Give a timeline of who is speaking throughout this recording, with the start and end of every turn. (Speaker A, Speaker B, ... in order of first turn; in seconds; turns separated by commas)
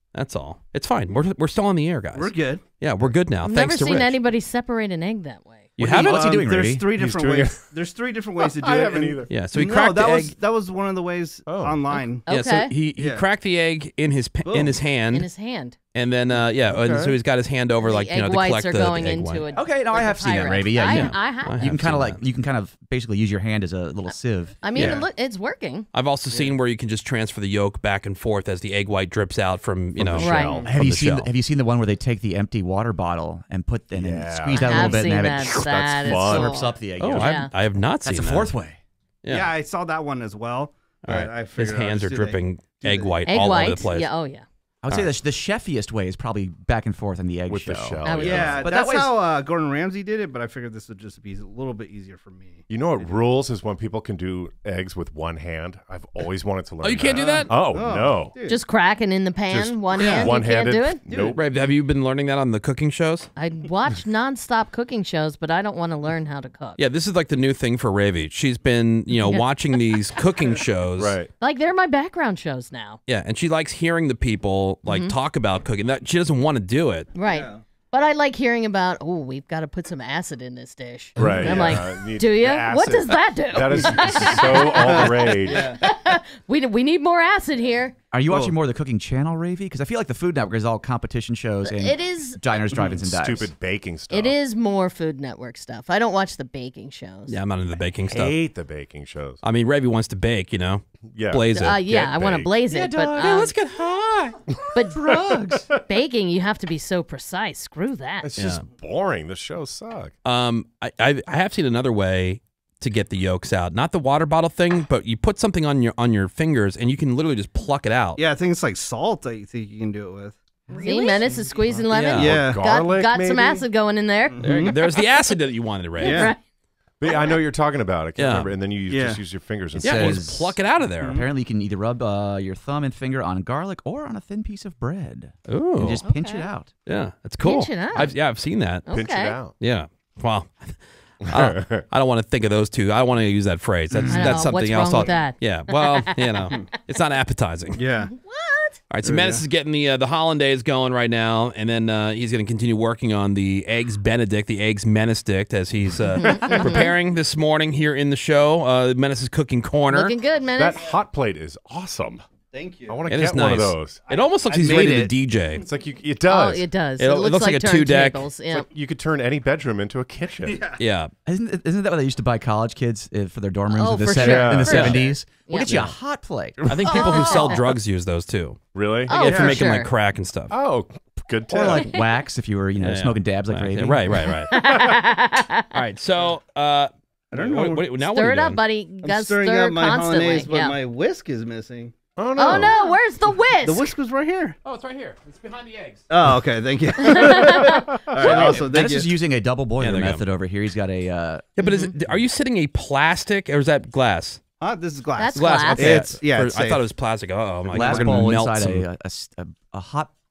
Speaker A: 0.1-4.2, Speaker B: 2.1-2.6, Speaker C: 3.4-5.7, Speaker A: 5.8-6.3, Speaker D: 5.8-7.0, Speaker B: 5.8-12.2, Speaker E: 7.0-7.7, Speaker E: 8.4-9.4, Speaker A: 9.3-10.4, Speaker E: 11.5-11.8, Speaker C: 12.2-12.7, Speaker A: 12.3-15.3, Speaker B: 13.0-13.2, Speaker B: 14.4-14.8, Speaker C: 15.1-15.8, Speaker A: 15.9-19.4, Speaker E: 16.7-17.2, Speaker C: 17.8-21.9, Speaker D: 19.5-24.7, Speaker A: 20.9-22.2, Speaker C: 24.6-25.9, Speaker A: 24.8-25.1, Speaker A: 25.9-31.3, Speaker E: 30.0-30.7, Speaker C: 30.2-30.6, Speaker B: 30.4-30.8, Speaker D: 30.6-37.4, Speaker E: 34.0-35.0, Speaker C: 34.5-36.6, Speaker E: 35.6-36.6, Speaker A: 37.0-38.5, Speaker C: 37.1-37.5, Speaker D: 38.0-38.8, Speaker A: 39.2-39.5, Speaker B: 39.3-43.2, Speaker A: 41.0-44.1, Speaker C: 43.3-44.5, Speaker D: 44.8-49.2, Speaker E: 47.5-48.7, Speaker C: 48.0-48.5, Speaker B: 48.2-53.2, Speaker E: 52.7-58.4, Speaker A: 56.8-57.5, Speaker B: 57.2-58.6, Speaker C: 58.5-61.0, Speaker E: 59.5-61.4, Speaker A: 60.0-60.3, Speaker B: 61.1-61.4, Speaker A: 61.3-63.3, Speaker C: 63.4-66.8, Speaker A: 66.8-71.2, Speaker C: 69.2-69.4, Speaker E: 71.0-71.3, Speaker C: 71.4-73.0, Speaker A: 73.1-77.1, Speaker C: 74.9-75.1, Speaker C: 77.2-88.0, Speaker B: 77.3-77.6, Speaker D: 81.2-81.8, Speaker E: 81.2-85.7, Speaker B: 84.6-85.9, Speaker D: 88.1-93.5, Speaker B: 88.3-88.6, Speaker C: 91.6-92.6, Speaker B: 92.7-93.0, Speaker E: 93.0-94.4, Speaker C: 94.1-97.4, Speaker A: 97.3-98.4, Speaker E: 98.1-99.4, Speaker A: 99.4-101.8, Speaker E: 101.1-102.5, Speaker C: 101.5-103.5, Speaker D: 102.7-103.5, Speaker E: 103.4-105.8, Speaker C: 104.7-105.2, Speaker D: 104.9-105.7, Speaker C: 105.8-108.3, Speaker E: 108.2-110.1, Speaker A: 108.4-108.7, Speaker A: 110.2-118.2, Speaker B: 118.2-122.6, Speaker C: 120.8-125.0, Speaker A: 121.9-122.4, Speaker E: 122.2-123.6, Speaker B: 124.3-124.8, Speaker A: 124.4-126.3, Speaker C: 126.0-126.4, Speaker B: 126.0-126.3, Speaker E: 127.0-130.2, Speaker A: 128.2-128.5, Speaker B: 128.9-129.2, Speaker D: 129.8-136.7, Speaker A: 129.8-131.2, Speaker B: 131.0-131.3, Speaker A: 135.5-136.1, Speaker C: 136.0-136.5, Speaker A: 136.9-138.9, Speaker C: 137.4-138.1, Speaker C: 138.9-139.4, Speaker E: 138.9-139.5, Speaker A: 139.6-147.8, Speaker E: 141.3-141.9, Speaker E: 143.9-144.3, Speaker C: 144.1-146.6, Speaker B: 147.8-148.1, Speaker C: 148.1-148.8, Speaker A: 148.9-160.2, Speaker B: 149.0-149.4, Speaker C: 156.2-156.9, Speaker C: 159.9-160.8, Speaker E: 160.5-162.3, Speaker B: 162.5-163.1, Speaker E: 162.9-164.0, Speaker A: 163.1-165.7, Speaker B: 164.1-165.1, Speaker E: 165.6-166.6, Speaker C: 166.3-168.7, Speaker A: 167.0-168.3, Speaker E: 168.6-170.6, Speaker B: 170.4-170.8, Speaker A: 170.8-171.1, Speaker D: 171.3-176.6, Speaker C: 173.7-175.9, Speaker E: 174.2-175.0, Speaker A: 174.7-175.0, Speaker A: 175.7-175.9, Speaker E: 176.7-177.1, Speaker A: 176.7-180.6, Speaker C: 176.8-177.7, Speaker E: 178.7-179.2, Speaker C: 179.1-179.9, Speaker B: 179.2-179.6, Speaker E: 180.5-181.9, Speaker D: 181.5-184.2, Speaker C: 181.7-182.1, Speaker A: 182.8-184.6, Speaker C: 184.5-185.7, Speaker A: 185.7-188.6, Speaker B: 187.3-187.9, Speaker C: 188.0-190.8, Speaker B: 189.0-193.0, Speaker E: 192.2-192.8, Speaker C: 192.4-193.9, Speaker B: 193.6-194.6, Speaker A: 194.7-196.1, Speaker B: 196.1-199.1, Speaker C: 197.0-198.0, Speaker E: 197.5-198.6, Speaker D: 198.2-201.5, Speaker A: 199.8-200.2, Speaker A: 201.6-204.4, Speaker C: 201.6-201.9, Speaker B: 204.6-206.8, Speaker C: 205.2-206.1, Speaker A: 205.3-208.9, Speaker D: 207.7-210.2, Speaker B: 207.8-208.1